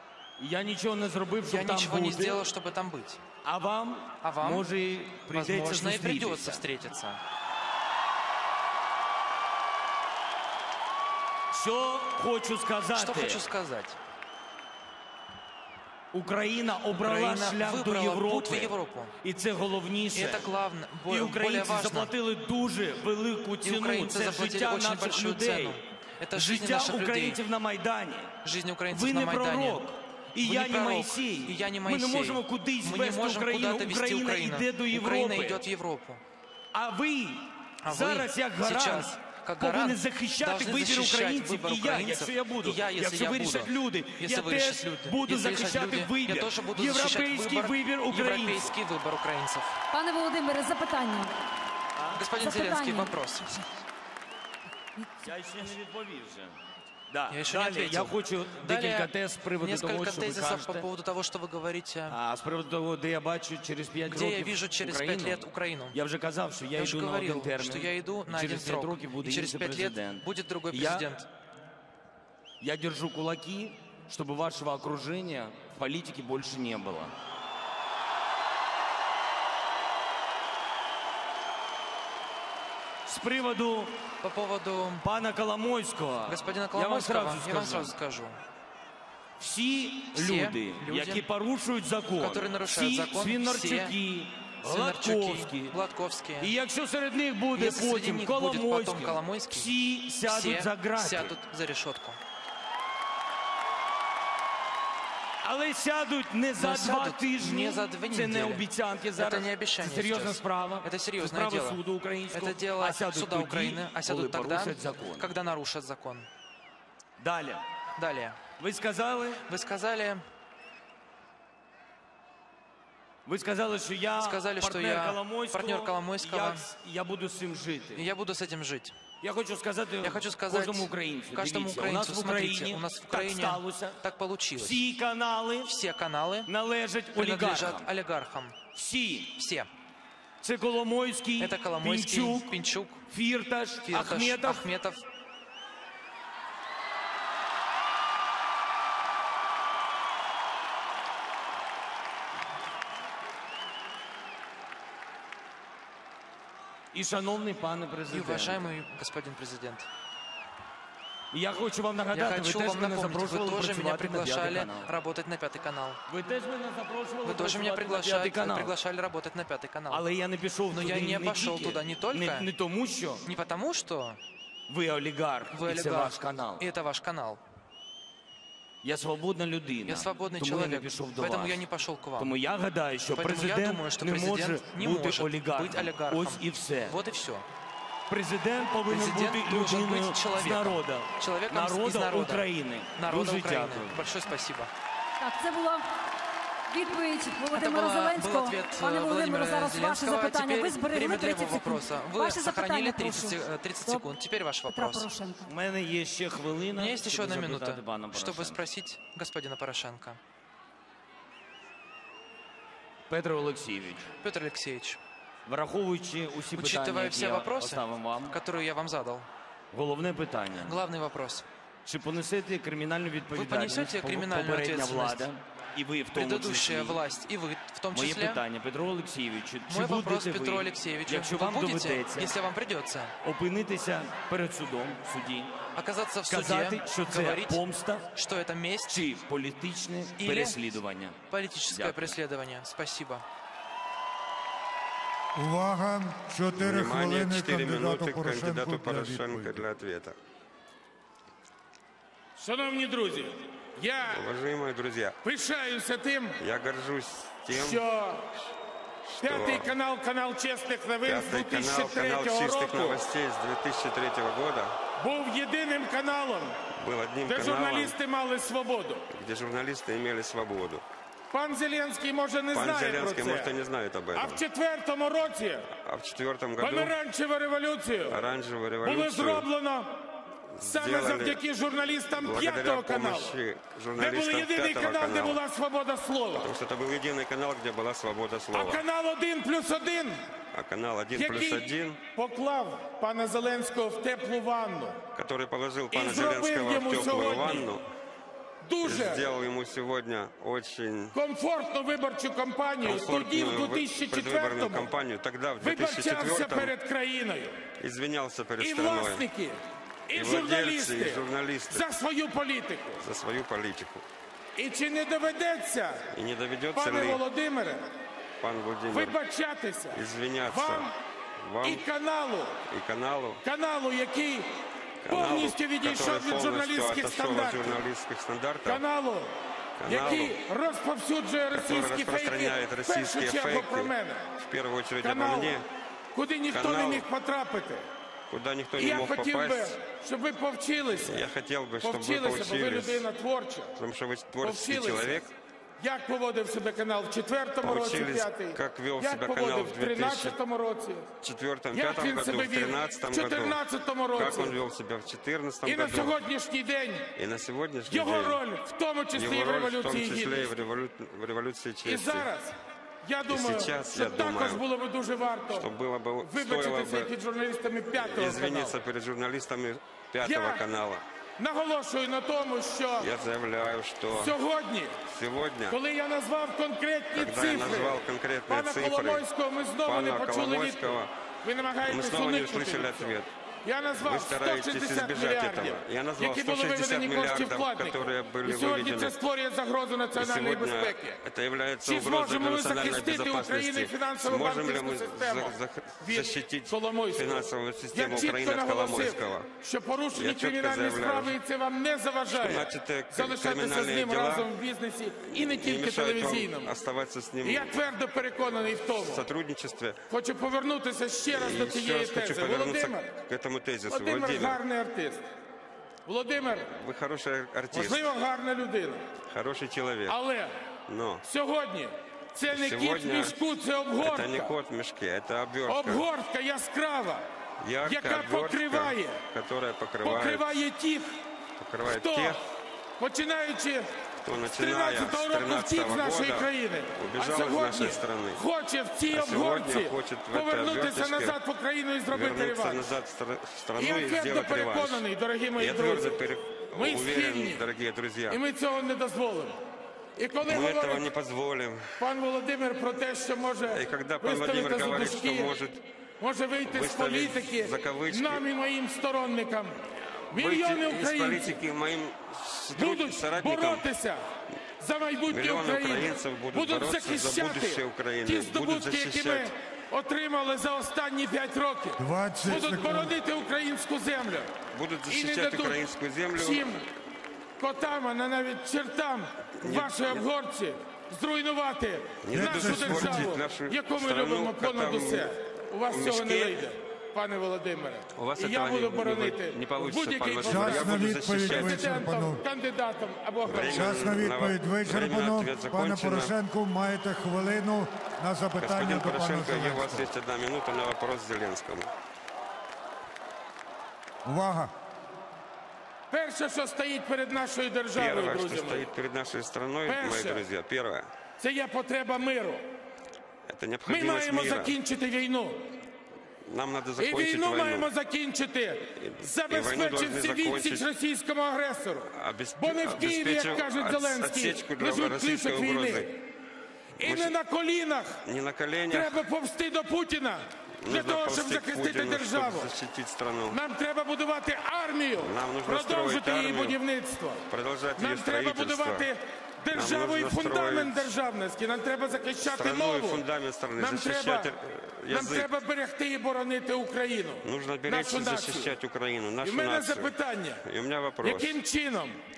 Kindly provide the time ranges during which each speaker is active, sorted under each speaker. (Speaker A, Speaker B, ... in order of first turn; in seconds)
Speaker A: 0.4-2.4, 3.4-6.6, 11.5-13.4, 16.1-20.5, 21.1-25.8, 26.4-28.3, 28.9-35.6, 36.7-48.8, 52.0-52.2, 55.2-56.6, 57.1-60.9, 62.1-71.1, 72.6-77.1, 83.1-84.0, 85.0-87.9, 89.4-95.8, 96.4-101.3, 105.4-115.3, 117.2-117.6, 118.6-119.4, 123.3-128.1, 129.2-134.0, 134.6-135.7, 136.5-137.9, 138.7-139.3, 140.4-142.5, 143.1-144.6, 156.9-158.7, 161.3-164.9, 166.1-168.7, 169.9-173.2, 174.7-176.7, 178.8-181.6, 182.2-187.0, 188.1-194.0, 205.5-208.6, 213.1-214.1, 215.5-218.4, 219.7-220.8, 221.9-227.0, 227.9-232.3, 233.2-235.6, 236.3-238.1, 238.9-242.2
Speaker B: 1.5-3.2, 4.2-4.7, 5.3-7.2, 12.9-14.0, 17.0-19.1, 20.1-22.1, 23.6-27.4, 28.4-29.9, 30.4-36.2, 37.8-49.8, 52.1-53.5, 57.3-62.2, 64.1-66.0, 66.8-71.3, 84.2-85.1, 86.3-88.4, 90.1-91.2, 92.2-94.0, 94.6-96.5, 97.5-99.7, 100.3-102.2, 106.6-116.3, 118.0-118.4, 119.5-120.2, 124.2-126.7, 128.0-129.0, 130.0-134.8, 135.6-136.5, 137.2-138.6, 139.3-139.7, 141.4-143.0, 143.9-145.0, 158.1-159.9, 162.1-166.0, 167.2-170.1, 170.7-172.5, 173.2-174.2, 175.5-177.4, 179.9-182.3, 183.1-187.5, 188.9-194.7, 197.5-205.1, 206.8-210.2, 214.2-215.0, 216.6-219.3, 220.6-221.5, 223.3-225.3, 226.1-228.4, 229.7-233.2, 235.8-237.6, 238.1-239.0, 240.2-240.6, 241.3-243.2
Speaker C: 49.9-51.3, 52.4-53.7, 55.0-55.2, 195.2-195.8, 196.7-204.1, 204.7-205.5
Speaker D: 245.4-249.7, 472.0-473.1, 482.3-483.3, 490.4-492.4, 493.7-500.1, 504.2-504.7
Speaker E: 246.6-250.2, 254.1-255.2, 256.4-257.9, 259.1-259.8, 261.1-264.8, 266.8-268.0, 269.1-270.8, 272.5-274.4, 275.7-277.0, 278.1-279.5, 280.6-281.4, 282.2-285.4, 286.3-288.9, 290.5-292.0, 295.1-297.9, 298.8-301.2, 302.8-306.8, 307.8-309.3, 310.1-311.9, 313.0-314.1, 316.1-317.2, 318.4-319.2, 319.9-321.8, 322.7-323.4, 325.0-328.8, 329.8-330.4, 331.5-335.7, 336.5-337.1, 338.3-339.8, 340.9-343.1, 343.8-345.3, 347.6-350.4, 351.2-353.6, 354.1-356.2, 357.2-358.4, 359.1-362.3, 363.3-364.6, 365.5-367.1, 368.0-371.0, 373.0-374.4, 375.1-375.8, 377.1-379.3, 379.9-381.1, 381.8-383.3, 384.0-389.2, 390.1-399.5, 400.1-401.4, 402.3-404.5, 405.3-407.9, 408.7-410.0, 411.3-414.6, 416.7-418.1, 419.3-420.2, 420.9-421.2, 422.5-423.4, 424.0-426.1, 427.6-430.5, 431.6-432.4, 434.2-438.4, 439.1-441.4, 442.1-445.1, 445.6-448.4, 450.4-452.0, 453.7-455.8, 456.6-458.4, 460.3-463.9, 465.3-469.5, 474.7-476.8, 479.6-480.2, 482.2-485.3, 485.9-486.7, 488.1-492.0, 493.5-496.3, 498.6-501.9, 507.9-511.1, 513.5-514.8, 516.5-517.9, 519.0-520.9, 522.1-526.1, 527.0-527.4, 528.2-529.2, 530.8-533.6, 535.2-536.8, 537.5-539.1, 539.7-541.1, 542.4-545.5, 547.4-551.6
Speaker F: 252.4-254.2, 255.2-256.4, 257.5-258.3, 259.2-263.0, 265.0-266.6, 267.3-269.1, 271.3-273.6, 274.1-275.7, 276.6-278.2, 278.8-280.0, 280.6-283.4, 284.0-286.5, 288.5-290.3, 291.1-295.0, 295.9-297.7, 298.6-299.3, 301.1-304.9, 305.6-307.6, 308.6-313.0, 314.6-316.1, 316.7-317.9, 318.9-320.9, 321.6-322.6, 323.4-327.8, 328.6-329.3, 329.9-334.3, 335.0-335.6, 336.1-337.9, 338.8-341.2, 341.8-343.7, 344.4-345.2, 345.8-351.1, 351.7-354.6, 355.6-357.1, 357.9-360.5, 361.8-365.7, 366.2-368.8, 370.2-370.6, 371.4-373.1, 374.1-375.0, 375.7-391.2, 391.8-406.7, 407.4-409.3, 410.1-413.1, 413.9-415.3, 416.1-416.7, 417.7-419.1, 420.1-420.5, 421.2-424.5, 425.7-427.2, 427.8-429.2, 430.0-431.2, 431.9-432.4, 433.0-433.9, 434.4-442.9, 443.8-446.2, 446.7-447.7, 448.3-449.6, 450.2-451.1, 452.0-455.6, 456.2-459.8, 460.3-461.6, 462.8-464.2, 464.8-474.5, 475.1-475.8, 476.4-476.8, 477.6-494.0, 506.1-508.9, 509.9-510.4, 511.4-512.7, 513.9-515.7, 517.0-526.2, 527.0-528.2, 528.9-532.7, 533.5-537.5, 538.0-543.2, 543.8-544.5, 545.1-548.8, 549.4-550.6, 551.2-552.2